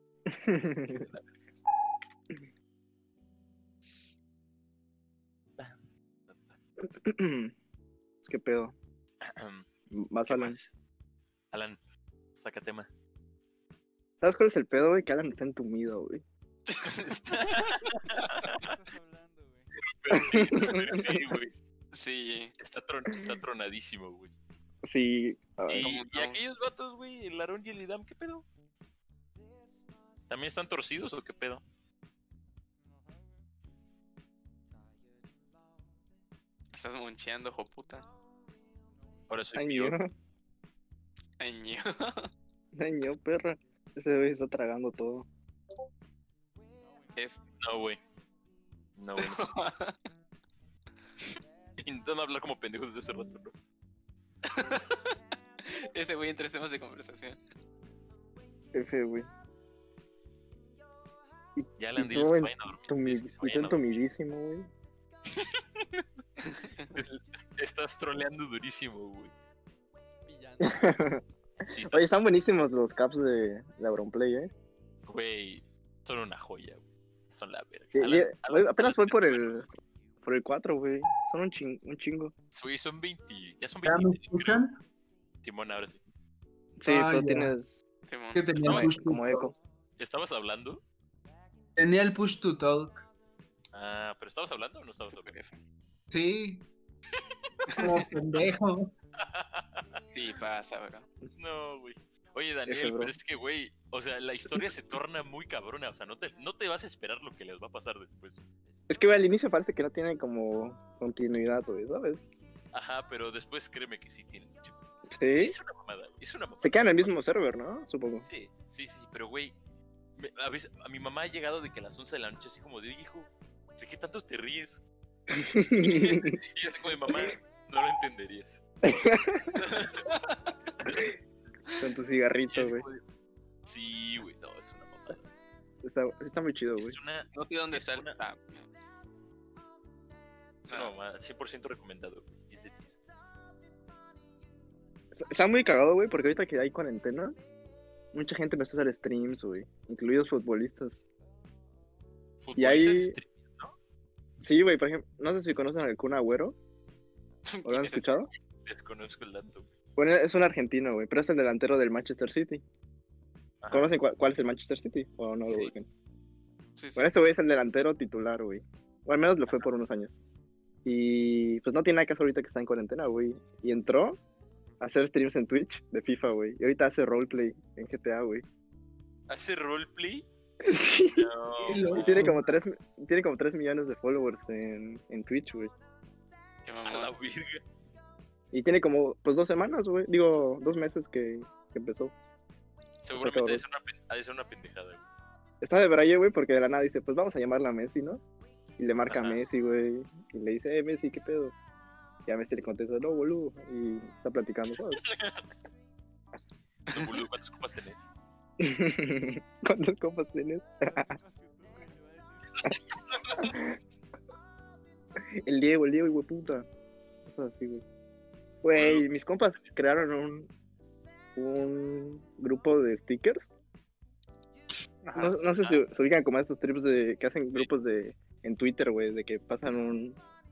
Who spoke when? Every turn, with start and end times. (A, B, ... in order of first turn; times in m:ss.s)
0:00.3-0:01.0 A
0:00.8-0:01.4 B
0:06.8-0:07.5 A
0:08.2-0:08.7 A
0:09.2-0:09.7 B
0:09.9-0:10.6 A
0:10.2-0:10.7 B
0:11.5-0:11.8 B
0:12.3-0:12.9 B
0:14.2-0:16.2 A
0:16.7-0:17.9 C
0:16.8-0:18.6 B
0:18.6-0:19.8 D
0:19.8-0:21.5 B
0:20.1-0:21.2 A
0:21.9-0:22.5 C
0:22.6-0:24.3 B
0:24.8-0:26.0 A
0:25.7-0:28.4 B
0:25.8-0:26.4 C
0:30.3-0:31.6 B
0:32.8-0:33.3 D
0:36.7-0:38.0 C
0:38.9-0:39.2 D
0:39.3-0:40.0 B
0:39.6-0:40.1 A
0:41.4-0:42.3 C
0:42.7-0:45.2 A
0:46.8-0:47.4 D
0:47.2-0:47.4 C
0:47.6-0:48.0 B
0:49.0-0:49.5 B
0:49.2-0:50.0 C
0:51.8-0:53.5 B
0:54.5-0:55.0 C
0:55.6-0:57.4 C
0:58.7-0:59.3 A
1:01.6-1:04.7 A
1:01.8-1:04.0 B
1:05.3-1:06.0 B
1:06.9-1:09.3 B
1:10.2-1:11.3 D
1:10.6-1:11.2 A
1:11.6-1:12.1 B
1:11.9-1:14.5 A
1:15.1-1:19.6 B
1:17.9-1:19.7 A
1:20.2-1:22.3 A
1:22.5-1:24.6 B
1:23.8-1:24.8 E
1:25.4-1:26.0 B
1:26.8-1:27.8 A
1:26.8-1:27.5 E
1:28.1-1:28.6 C
1:28.3-1:29.5 E
1:28.6-1:28.9 B
1:28.6-1:29.5 A
1:30.0-1:30.8 B
1:31.8-1:33.0 E
1:33.7-1:35.4 B
1:35.1-1:35.6 C
1:36.1-1:36.7 E
1:37.1-1:37.7 B
1:37.8-1:38.0 C
1:37.8-1:38.9 E
1:39.2-1:40.0 B
1:40.1-1:41.1 C
1:41.3-1:48.4 B
1:42.7-1:43.1 A
1:48.9-1:52.2 A
1:52.7-1:57.2 B
1:55.1-1:55.6 A
1:56.6-1:58.3 A
1:58.2-1:59.6 B
2:00.2-2:04.8 B
2:05.3-2:06.4 A
2:05.8-2:08.6 B
2:08.8-2:09.5 A
2:09.5-2:10.1 B
2:10.8-2:11.1 B
2:11.8-2:12.8 A
2:12.5-2:13.0 B
2:13.6-2:15.3 B
2:15.8-2:17.0 A
2:16.8-2:18.2 B
2:17.3-2:18.4 C
2:20.6-2:20.9 C
2:20.7-2:23.0 B
2:25.1-2:27.3 A
2:28.1-2:31.0 A
2:32.4-2:33.7 B
2:32.6-2:33.2 A
2:34.4-2:36.6 A
2:37.4-2:38.3 C
2:37.6-2:38.3 A
2:38.6-2:39.7 B
2:40.0-2:42.6 A
2:43.6-2:43.9 B
2:43.7-2:45.9 A
2:45.5-2:45.7 B
2:46.8-2:47.1 C
2:47.0-2:50.1 A
2:50.8-2:54.2 A
2:54.8-2:58.4 A
2:59.3-3:00.3 B
3:00.6-3:01.3 A
3:01.0-3:02.4 B
3:01.6-3:02.4 E
3:01.9-3:05.7 A
3:06.6-3:07.1 C
3:06.8-3:07.6 B
3:08.5-3:12.1 A
3:13.0-3:15.1 B
3:13.1-3:13.6 A
3:15.6-3:18.2 A
3:18.8-3:21.5 A
3:19.1-3:19.4 B
3:22.2-3:25.0 A
3:24.9-3:25.4 B
3:26.9-3:27.2 C
3:26.9-3:28.1 B
3:28.6-3:31.1 A
3:30.8-3:33.8 D
3:32.6-3:33.5 B
3:35.3-3:36.7 A
3:37.2-3:37.8 A
3:38.6-3:40.5 A
3:38.7-3:39.1 B
3:41.4-3:43.5 A
3:45.0-3:45.8 B
3:45.1-3:50.2 A